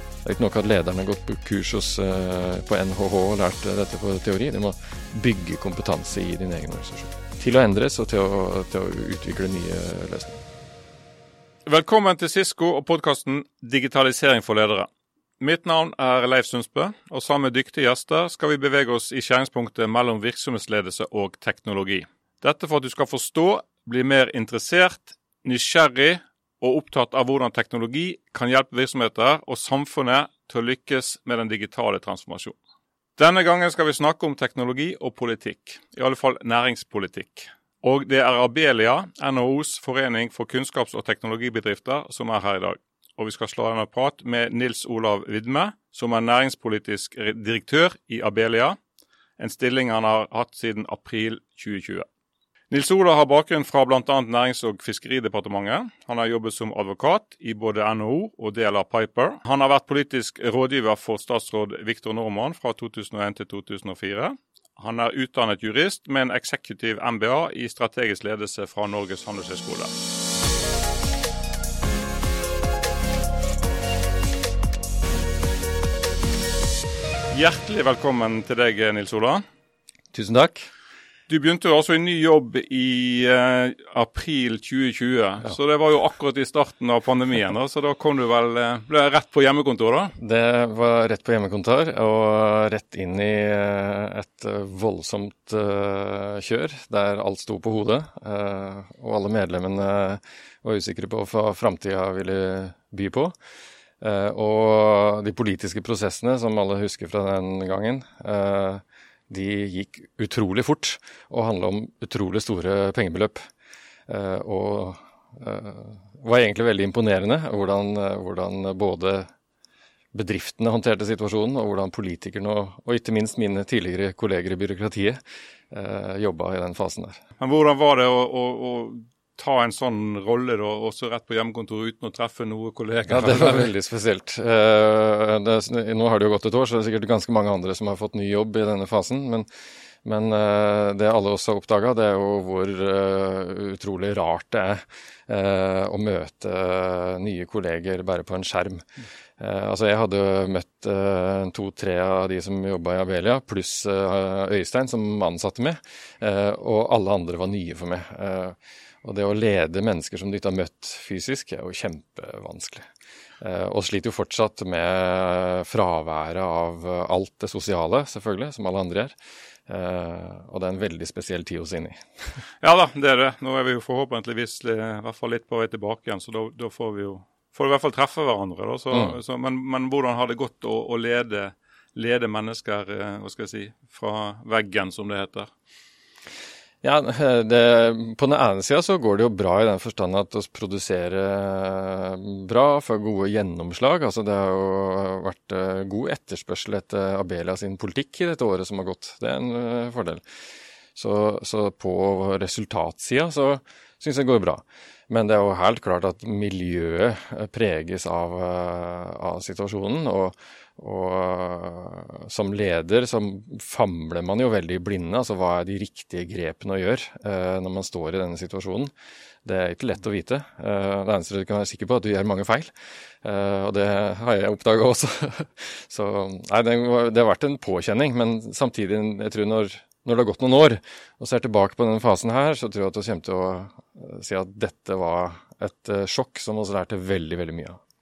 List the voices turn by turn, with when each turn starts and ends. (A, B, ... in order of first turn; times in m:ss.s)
0:00.2-0:10.4 A
0:11.6-0:14.9 B
0:15.4-0:32.6 B
0:33.2-0:48.8 B
0:49.4-0:52.1 B
0:52.7-1:09.9 B
1:17.3-1:19.4 B
1:20.1-1:20.7 A
1:21.3-1:30.2 B
1:30.2-1:43.3 A
1:44.0-1:53.4 A
1:54.1-1:59.3 A
2:00.1-2:05.2 A
2:05.7-2:07.2 A
2:07.4-2:13.7 B
2:13.1-2:19.5 A
2:20.0-2:28.8 A
2:29.4-2:42.9 A
2:43.4-2:49.2 A
2:49.7-2:52.0 A
2:52.6-3:05.5 B
3:06.8-3:20.2 A
3:20.9-3:38.9 A
3:39.4-3:42.7 A
3:43.2-3:57.8 A